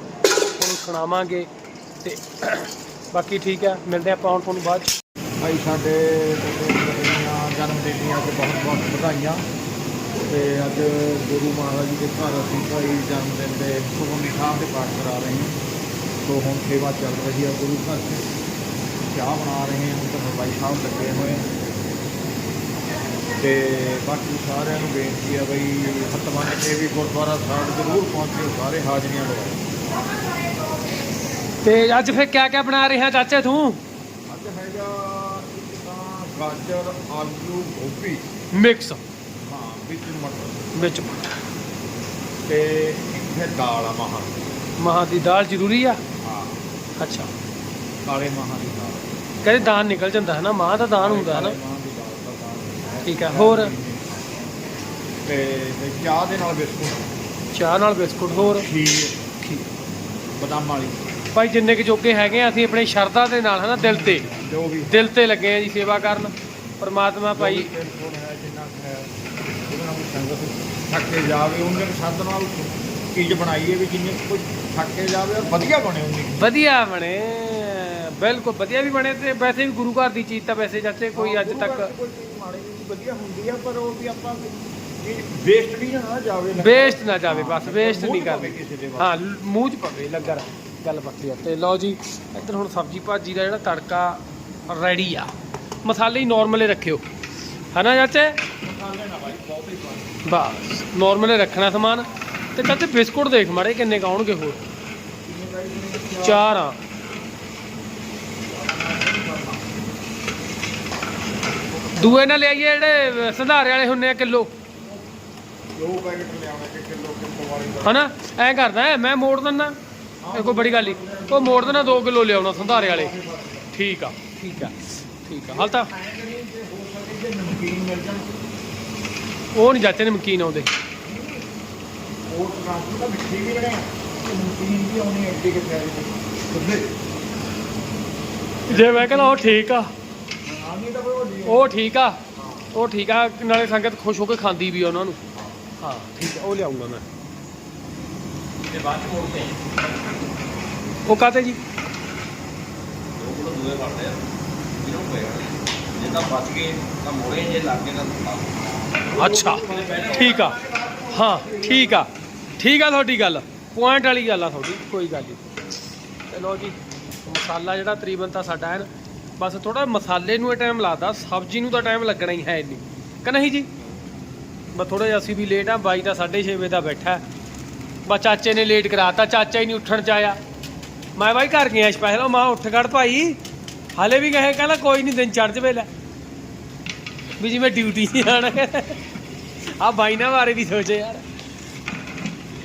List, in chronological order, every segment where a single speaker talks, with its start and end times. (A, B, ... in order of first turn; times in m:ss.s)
0:00.6-0:01.5 A
0:02.0-0:04.9 A
0:05.4-0:09.4 B
0:10.3-0:15.6 B
0:16.2-0:18.3 B
0:19.0-0:21.4 B
0:23.4-0:29.6 B
0:31.6-0:33.8 A
0:34.3-0:38.2 B
0:38.6-0:39.0 A
0:39.4-0:40.7 B
0:40.7-0:41.2 A
0:42.5-0:44.4 B
0:44.8-0:46.0 A
0:46.2-0:46.6 B
0:47.0-0:47.3 A
0:48.0-0:49.1 B
0:49.4-0:51.6 A
0:51.0-0:54.2 B
0:53.0-0:53.7 A
0:55.2-0:57.0 B
0:57.5-0:58.6 A
0:58.4-0:59.1 B
1:00.4-1:01.1 B
1:01.3-1:04.3 A
1:03.8-1:05.1 B
1:04.9-1:07.7 A
1:07.3-1:09.1 B
1:09.7-1:16.5 B
1:16.4-1:21.9 A
1:21.1-1:29.1 B
1:26.6-1:35.3 A
1:35.8-1:37.0 A
1:37.7-1:38.4 A
1:38.6-1:40.1 B
1:40.2-1:44.7 A
1:45.2-1:46.4 B
1:46.2-1:46.8 A
1:48.4-1:49.7 B
1:51.7-1:52.3 B
1:52.0-1:54.5 A
1:55.8-1:58.0 B
1:57.8-1:59.8 A
2:00.2-2:03.7 B
2:00.3-2:03.1 A
2:03.7-2:05.9 A
2:05.5-2:08.3 B
2:09.5-2:10.7 A
2:11.0-2:11.5 B
2:12.3-2:16.9 B
2:18.7-2:19.4 B
2:18.7-2:19.9 A
2:20.4-2:21.7 B
2:21.4-2:22.2 A
2:22.4-2:22.7 B
2:22.7-2:25.2 A
2:25.8-2:27.0 A
2:28.7-2:29.6 C
2:31.1-2:31.6 A
2:33.2-2:34.2 C
2:34.8-2:38.6 C
2:39.0-2:42.0 B
2:39.2-2:40.6 A
2:39.8-2:40.1 C
2:41.1-2:45.4 A
2:46.3-2:53.7 A
2:54.7-2:57.2 A
2:58.1-3:00.4 A
3:01.2-3:03.4 A
3:04.0-3:05.9 A
3:07.4-3:09.0 A
3:09.8-3:11.2 A